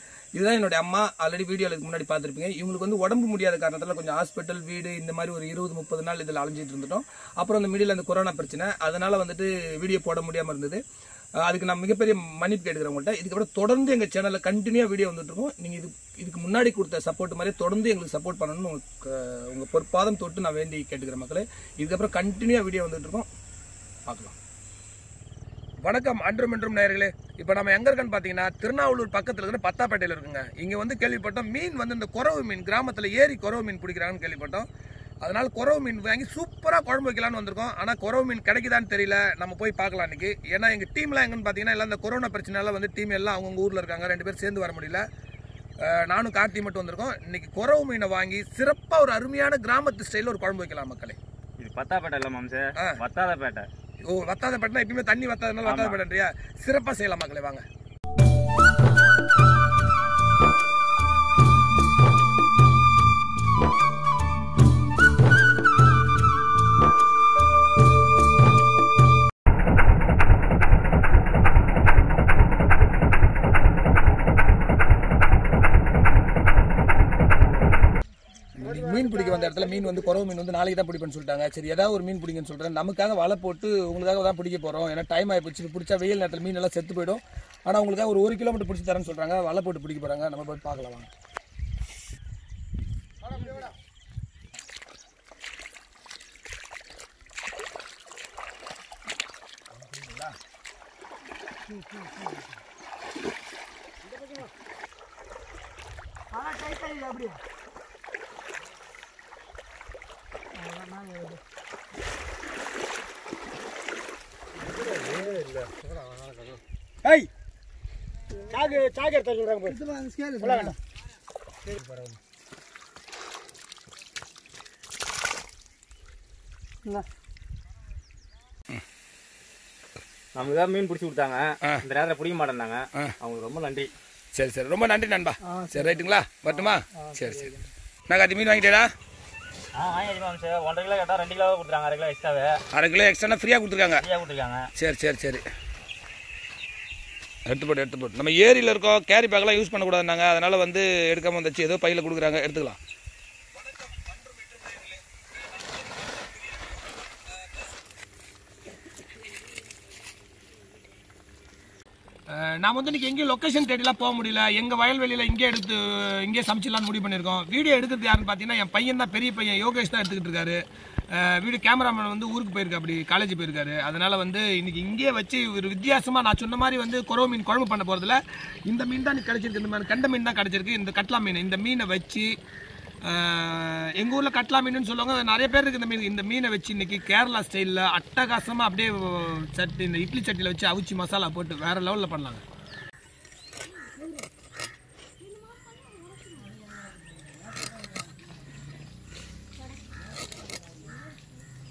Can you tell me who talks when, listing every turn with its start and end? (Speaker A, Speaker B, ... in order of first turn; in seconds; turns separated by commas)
Speaker A: 0.4-10.8, Speaker A: 11.4-23.3, Speaker A: 24.1-24.4, Speaker A: 25.9-34.7, Speaker A: 35.2-45.0, Speaker A: 45.8-51.2, Speaker B: 51.6-53.7, Speaker A: 54.0-57.6, Speaker B: 55.6-56.0, Speaker A: 78.6-91.1, Speaker C: 78.6-80.2, Speaker A: 99.7-100.3, Speaker C: 101.7-102.4, Speaker C: 104.0-104.5, Speaker C: 106.3-107.4, Speaker C: 110.6-111.4, Speaker C: 115.1-115.4, Speaker C: 118.5-120.8, Speaker B: 130.3-133.9, Speaker A: 134.3-137.5, Speaker B: 136.5-137.6, Speaker A: 138.1-138.9, Speaker B: 139.8-142.6, Speaker A: 142.7-144.0, Speaker B: 144.0-144.7, Speaker A: 144.8-145.4, Speaker A: 147.5-152.8, Speaker A: 154.7-154.9, Speaker A: 162.3-170.6, Speaker A: 171.1-182.3, Speaker A: 183.1-192.4